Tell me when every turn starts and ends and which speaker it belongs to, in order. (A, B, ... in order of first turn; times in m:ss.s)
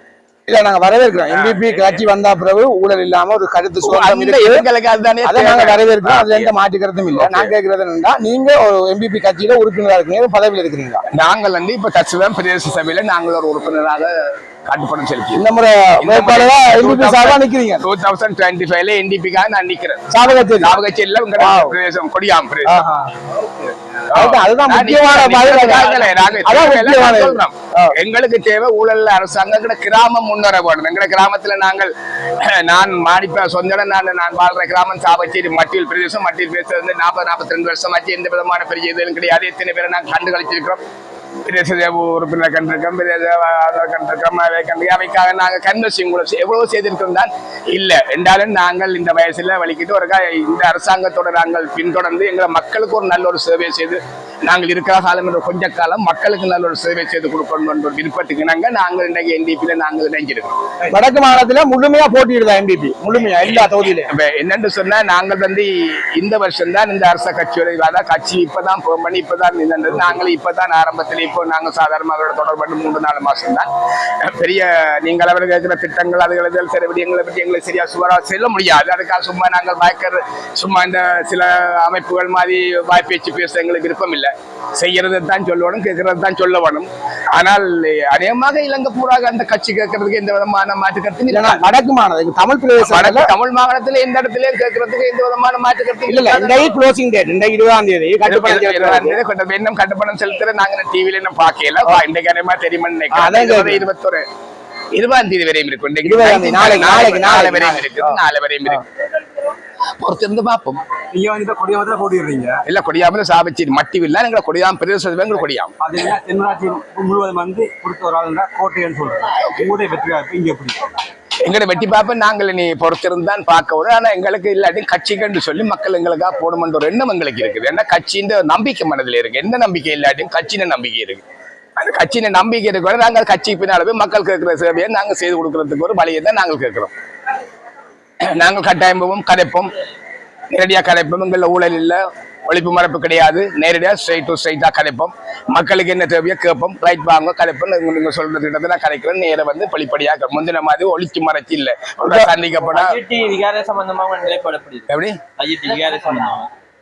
0:00.5-0:04.6 A
0:01.3-0:02.0 B
0:03.8-0:06.5 B
0:05.2-0:11.0 A
0:07.1-0:07.5 B
0:11.1-0:15.4 B
0:15.3-0:17.8 A
0:16.0-0:22.8 B
0:20.1-0:20.7 A
0:21.4-0:21.7 A
0:22.6-0:23.1 A
0:23.4-0:23.9 C
0:24.1-0:40.8 B
0:24.1-0:27.9 A
0:41.4-1:00.6 B
1:00.9-1:04.1 A
1:03.4-1:13.7 B
1:14.2-1:31.6 B
1:31.3-1:33.3 A
1:32.8-1:36.7 B
1:36.0-1:39.2 A
1:38.2-1:44.2 B
1:43.1-1:43.8 A
1:44.9-1:48.8 B
1:46.0-1:48.8 A
1:50.0-1:50.8 B
1:51.1-1:52.6 C
1:52.6-1:55.7 B
1:55.8-2:00.8 C
2:01.4-2:11.2 B
2:11.8-2:16.9 B
2:18.3-2:19.7 B
2:20.5-2:33.0 B
2:32.1-2:36.5 D
2:34.9-2:35.2 B